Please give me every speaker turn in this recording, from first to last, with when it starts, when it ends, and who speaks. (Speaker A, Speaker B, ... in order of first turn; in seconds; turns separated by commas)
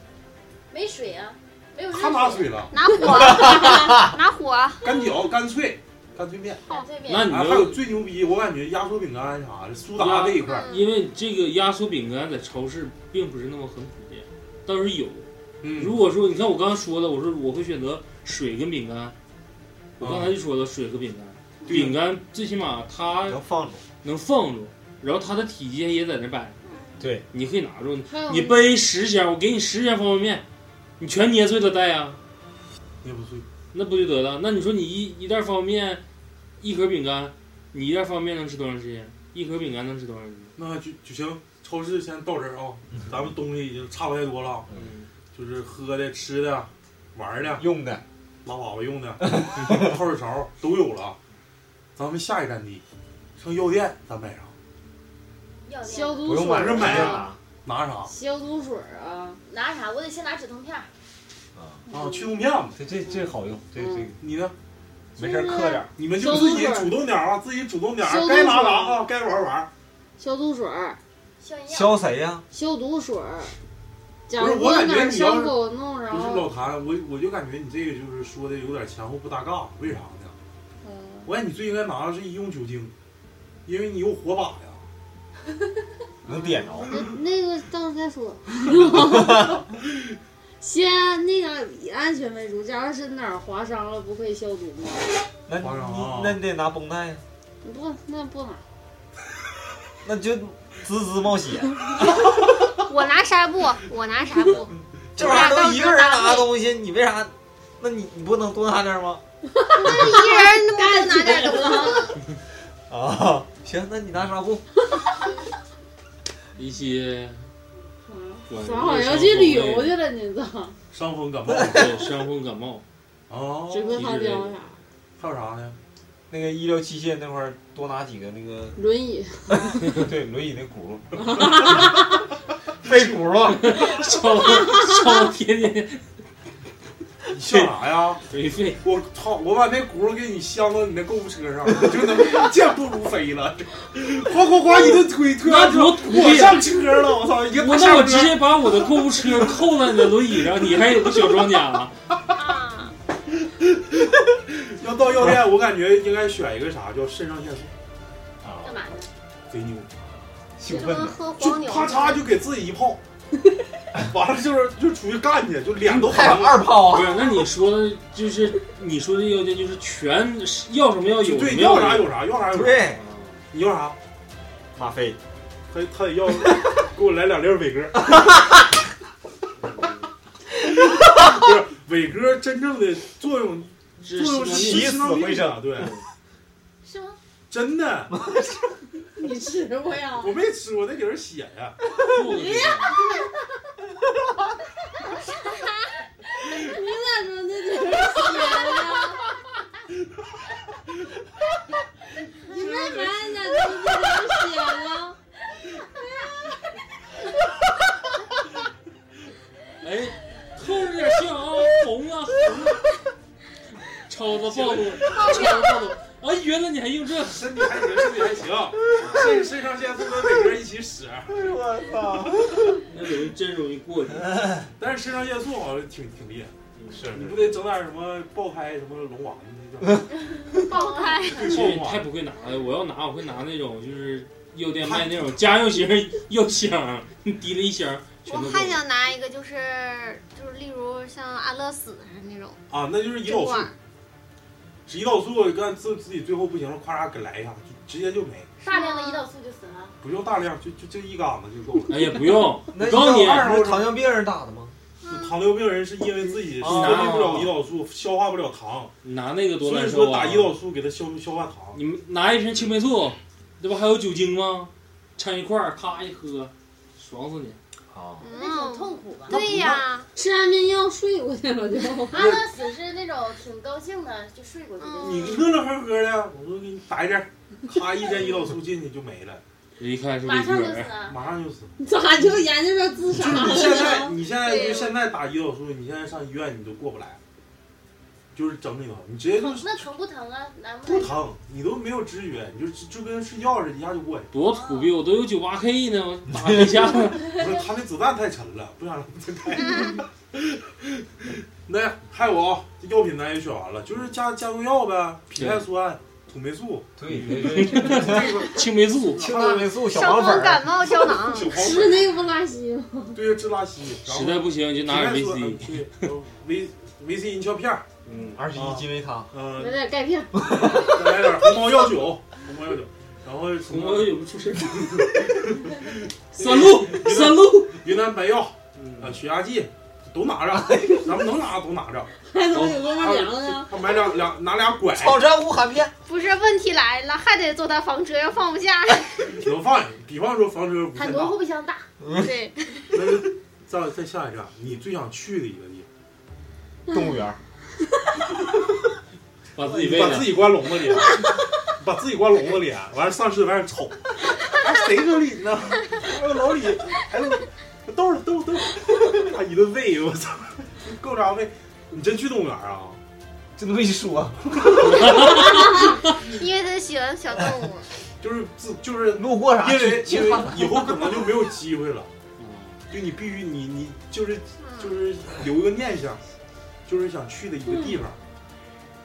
Speaker A: 0.7-2.6, Speaker B: 1.9-2.7, Speaker C: 2.7-4.8, Speaker B: 4.8-6.7, Speaker A: 6.7-7.3, Speaker D: 7.1-7.8, Speaker B: 7.2-10.6, Speaker D: 9.9-19.1, Speaker C: 10.4-10.8, Speaker B: 15.6-15.9, Speaker D: 20.0-23.4, Speaker B: 20.0-20.3, Speaker B: 21.6-22.0, Speaker E: 23.2-23.8, Speaker D: 24.0-26.6, Speaker C: 26.7-27.0, Speaker E: 27.0-27.2, Speaker D: 27.3-30.4, Speaker F: 28.1-28.7, Speaker D: 31.0-32.2, Speaker B: 33.0-33.5, Speaker D: 33.7-36.0, Speaker D: 36.6-40.5, Speaker B: 40.6-44.7, Speaker D: 44.7-45.1, Speaker B: 45.3-47.6, Speaker E: 47.5-48.0, Speaker B: 48.4-51.2, Speaker E: 49.2-50.0, Speaker B: 52.0-52.8, Speaker B: 53.4-54.5, Speaker A: 55.6-56.4, Speaker F: 55.9-57.3, Speaker E: 56.2-57.4, Speaker B: 56.4-58.1, Speaker F: 58.1-59.4, Speaker A: 59.5-60.9, Speaker E: 61.5-61.8, Speaker B: 61.9-62.8, Speaker E: 62.8-64.2, Speaker F: 63.8-64.1, Speaker B: 64.2-64.5, Speaker E: 65.2-65.9, Speaker F: 65.2-67.0, Speaker B: 66.0-69.7, Speaker F: 68.0-69.0, Speaker F: 70.2-71.0, Speaker A: 71.4-72.0, Speaker E: 71.7-72.4, Speaker F: 72.5-73.5, Speaker F: 74.3-76.5, Speaker B: 74.3-75.5, Speaker B: 76.1-80.3, Speaker F: 80.8-81.3, Speaker B: 81.2-82.9, Speaker B: 83.7-84.9, Speaker E: 86.2-87.0, Speaker F: 86.3-89.6, Speaker E: 88.8-89.6, Speaker F: 90.6-95.1, Speaker E: 95.5-97.2, Speaker B: 95.6-96.4, Speaker F: 97.6-98.6, Speaker E: 100.0-101.7, Speaker C: 102.8-106.5, Speaker E: 105.2-109.2, Speaker F: 109.6-112.1, Speaker C: 109.8-112.1, Speaker E: 112.9-114.6, Speaker D: 116.5-117.4, Speaker F: 118.0-120.8, Speaker D: 118.5-119.9, Speaker B: 120.9-122.1, Speaker D: 121.5-122.8, Speaker B: 123.3-124.1, Speaker F: 123.7-124.8, Speaker D: 123.9-124.5, Speaker B: 125.2-125.8, Speaker E: 126.3-128.8, Speaker F: 128.8-130.0, Speaker E: 129.5-131.8, Speaker F: 131.2-131.9, Speaker E: 132.8-133.9, Speaker D: 133.5-136.0, Speaker F: 134.6-134.9, Speaker B: 137.3-138.2, Speaker E: 137.4-137.7, Speaker D: 138.3-138.8, Speaker B: 138.8-149.5, Speaker D: 144.8-146.7, Speaker D: 147.5-151.9, Speaker C: 152.3-152.9, Speaker B: 153.4-157.7, Speaker E: 158.4-158.8, Speaker A: 158.6-159.1, Speaker B: 159.5-159.9, Speaker E: 160.6-161.2, Speaker C: 160.7-162.3, Speaker B: 161.4-163.0, Speaker B: 164.0-166.6, Speaker E: 165.8-167.2, Speaker D: 166.9-172.1, Speaker B: 171.2-172.9, Speaker E: 172.5-173.0, Speaker D: 172.9-173.4, Speaker B: 173.5-174.0, Speaker E: 174.7-175.2, Speaker B: 175.7-178.2, Speaker D: 179.7-180.0, Speaker B: 180.7-185.9, Speaker D: 184.0-185.0, Speaker E: 184.4-185.9, Speaker D: 185.8-186.0, Speaker A: 186.8-187.2, Speaker B: 187.5-188.1, Speaker E: 188.1-188.8, Speaker F: 189.2-190.4, Speaker B: 190.2-191.8, Speaker D: 192.1-192.9, Speaker C: 192.3-193.1, Speaker C: 195.1-195.6, Speaker F: 196.6-199.2, Speaker F: 202.4-205.2, Speaker B: 202.5-203.3, Speaker D: 209.8-212.8, Speaker D: 213.9-217.7, Speaker B: 214.4-215.6, Speaker B: 217.3-221.4, Speaker D: 219.0-219.2, Speaker E: 219.0-219.2, Speaker E: 221.3-222.9, Speaker D: 222.8-224.6, Speaker E: 224.3-224.7, Speaker B: 224.8-226.5, Speaker D: 226.7-227.1, Speaker E: 226.9-227.6, Speaker B: 227.1-230.2, Speaker C: 230.5-231.7, Speaker B: 231.3-232.1, Speaker D: 231.4-238.8, Speaker B: 234.8-235.4, Speaker C: 238.2-242.6, Speaker B: 242.7-243.7, Speaker C: 243.2-243.7, Speaker B: 244.9-248.5, Speaker A: 248.6-249.9, Speaker C: 248.7-249.2, Speaker B: 250.0-252.2, Speaker D: 251.9-253.5, Speaker E: 252.7-254.8, Speaker B: 253.0-253.9, Speaker C: 255.0-255.4, Speaker B: 255.1-258.9, Speaker E: 256.4-257.5, Speaker D: 256.6-257.5, Speaker D: 259.0-260.5, Speaker B: 259.6-261.8, Speaker D: 261.7-267.6, Speaker E: 267.9-268.2, Speaker C: 268.2-270.1, Speaker A: 268.3-269.4, Speaker B: 269.3-269.9, Speaker F: 270.1-272.2, Speaker A: 272.1-275.5, Speaker B: 272.1-272.4, Speaker C: 274.8-275.4, Speaker B: 275.0-279.4, Speaker D: 279.8-280.9, Speaker A: 280.2-281.2, Speaker B: 281.1-281.7, Speaker F: 281.8-284.1, Speaker B: 283.1-287.2, Speaker C: 283.6-284.0, Speaker B: 288.3-289.7, Speaker A: 289.4-291.2, Speaker B: 290.9-294.3, Speaker D: 294.3-297.3, Speaker A: 294.5-295.0, Speaker B: 297.3-301.1, Speaker B: 301.6-306.9, Speaker D: 305.4-305.7, Speaker E: 307.0-308.5, Speaker D: 307.1-309.2, Speaker B: 307.7-309.4, Speaker E: 309.1-310.7, Speaker C: 309.3-311.5, Speaker B: 311.1-312.1, Speaker F: 311.5-313.2, Speaker B: 313.1-317.9, Speaker D: 314.1-315.9, Speaker D: 318.1-318.4, Speaker E: 318.3-319.3, Speaker B: 318.5-319.8, Speaker F: 319.6-321.0, Speaker E: 320.5-320.9, Speaker B: 320.8-332.1, Speaker D: 323.6-325.4, Speaker D: 326.3-327.8, Speaker D: 328.8-329.2, Speaker E: 330.5-331.1, Speaker F: 332.3-333.7, Speaker D: 332.5-333.6, Speaker B: 333.6-335.2, Speaker E: 334.9-335.9, Speaker C: 336.1-339.4, Speaker B: 339.3-341.4, Speaker A: 340.9-341.9, Speaker E: 342.0-342.3, Speaker C: 342.1-343.0, Speaker B: 342.9-345.9, Speaker E: 346.9-347.4, Speaker D: 349.5-350.5, Speaker B: 349.6-363.0, Speaker E: 363.6-365.2, Speaker C: 365.1-367.9, Speaker B: 368.2-372.1, Speaker E: 369.1-370.9, Speaker D: 372.4-372.8, Speaker B: 372.9-376.2, Speaker C: 374.6-374.9, Speaker B: 376.9-378.2